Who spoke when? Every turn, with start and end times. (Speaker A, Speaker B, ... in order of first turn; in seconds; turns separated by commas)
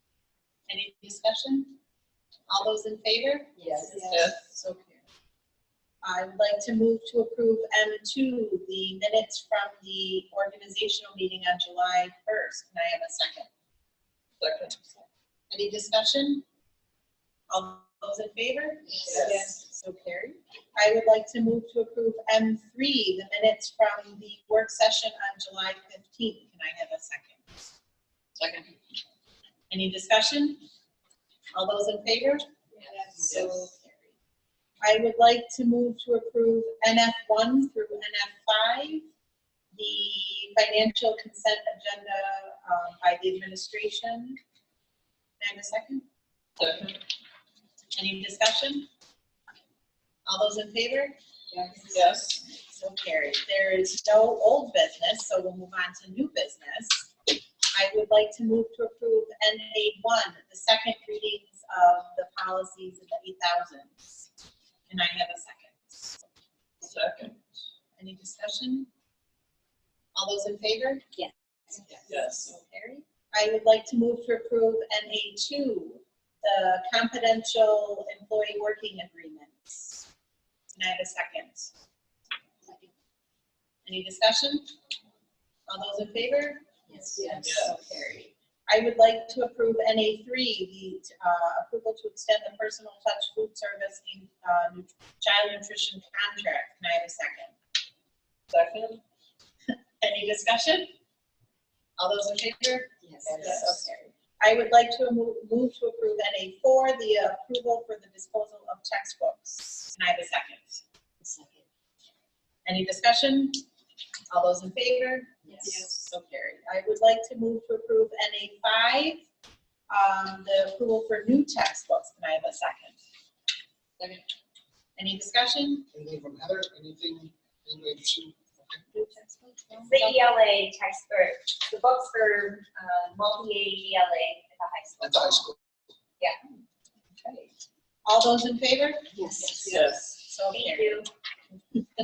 Speaker A: 0.7-1.8, Speaker A: 2.5-5.0, Speaker B: 3.6-4.2, Speaker C: 4.1-4.4, Speaker A: 6.0-13.5, Speaker C: 14.4-14.8, Speaker A: 15.5-16.4, Speaker A: 17.5-27.6, Speaker C: 19.1-19.5, Speaker A: 29.7-30.6, Speaker A: 31.5-32.5, Speaker A: 33.2-34.1, Speaker A: 34.8-39.0, Speaker A: 39.7-44.4, Speaker A: 45.4-46.0, Speaker C: 46.6-47.0, Speaker A: 47.9-48.9, Speaker A: 50.2-51.1, Speaker B: 51.5-52.0, Speaker C: 51.9-52.4, Speaker A: 52.6-57.1, Speaker A: 57.7-64.3, Speaker A: 64.9-66.2, Speaker C: 66.8-67.4, Speaker A: 68.0-68.9, Speaker A: 70.1-71.0, Speaker A: 71.8-80.0, Speaker C: 72.1-72.5, Speaker A: 80.7-81.7, Speaker A: 83.8-84.7, Speaker A: 85.7-97.5, Speaker B: 86.9-87.6, Speaker C: 87.4-87.8, Speaker C: 98.5-99.0, Speaker A: 100.0-100.9, Speaker A: 102.0-110.8, Speaker B: 103.0-103.5, Speaker C: 103.4-103.8, Speaker B: 111.2-111.6, Speaker A: 112.6-113.6, Speaker A: 114.3-119.2, Speaker B: 115.5-115.8, Speaker A: 119.9-123.0, Speaker A: 125.0-125.8, Speaker D: 125.9-128.8, Speaker A: 128.9-130.3, Speaker B: 129.9-135.5, Speaker D: 135.0-135.6, Speaker A: 137.2-139.1, Speaker B: 139.2-139.9, Speaker C: 139.6-140.2, Speaker A: 139.7-141.1, Speaker B: 140.5-141.1